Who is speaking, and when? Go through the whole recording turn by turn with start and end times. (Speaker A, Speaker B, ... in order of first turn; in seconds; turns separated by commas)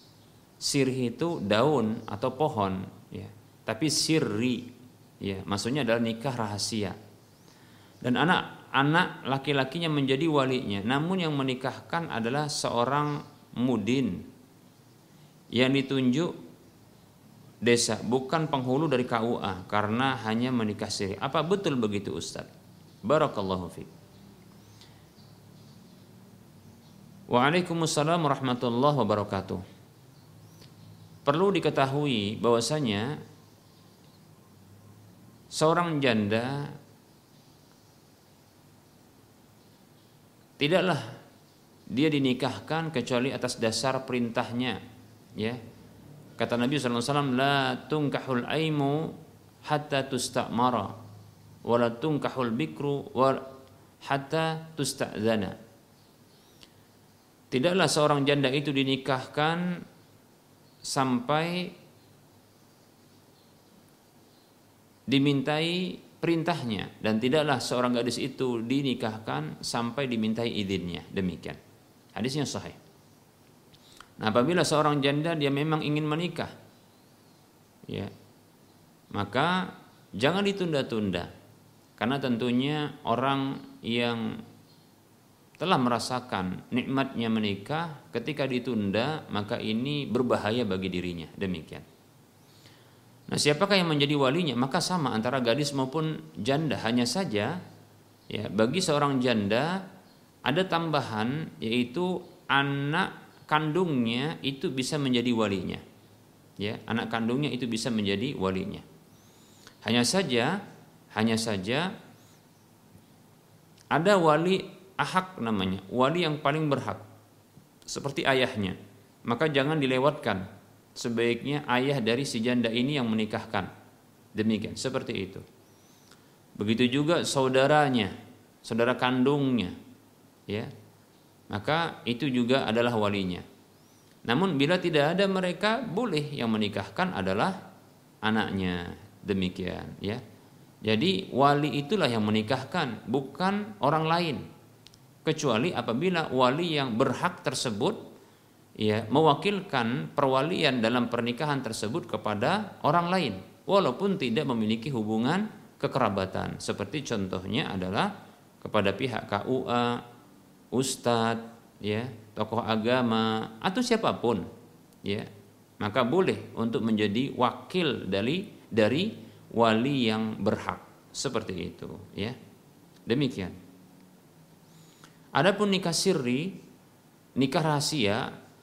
Speaker A: 0.6-4.7, Speaker A: 5.2-7.0, Speaker A: 8.0-14.2, Speaker A: 15.5-16.3, Speaker A: 17.6-22.5, Speaker A: 23.1-23.9, Speaker A: 27.3-29.6, Speaker A: 31.2-33.2, Speaker A: 35.5-36.7, Speaker A: 40.6-41.1, Speaker A: 41.9-44.8, Speaker A: 46.4-49.1, Speaker A: 49.6-51.0, Speaker A: 51.6-53.5, Speaker A: 54.0-55.6, Speaker A: 57.5-59.8, Speaker A: 60.9-61.7, Speaker A: 65.1-71.6, Speaker A: 72.1-72.8, Speaker A: 74.2-76.5, Speaker A: 79.1-81.3, Speaker A: 82.0-84.4, Speaker A: 85.6-91.8, Speaker A: 93.3-97.6, Speaker A: 98.3-99.8, Speaker A: 100.5-105.8, Speaker A: 106.6-108.8, Speaker A: 109.8-110.5, Speaker A: 111.1-111.9, Speaker A: 113.9-117.0, Speaker A: 117.9-118.8, Speaker A: 119.3-120.4, Speaker A: 121.0-123.7, Speaker A: 124.3-125.4, Speaker A: 126.6-129.8, Speaker A: 131.5-133.4, Speaker A: 134.2-137.6, Speaker A: 138.2-140.2, Speaker A: 140.8-144.4, Speaker A: 145.2-148.0, Speaker A: 148.8-158.1, Speaker A: 158.6-160.0, Speaker A: 160.7-164.5, Speaker A: 165.8-172.3, Speaker A: 173.1-173.5, Speaker A: 175.3-176.6, Speaker A: 177.4-178.3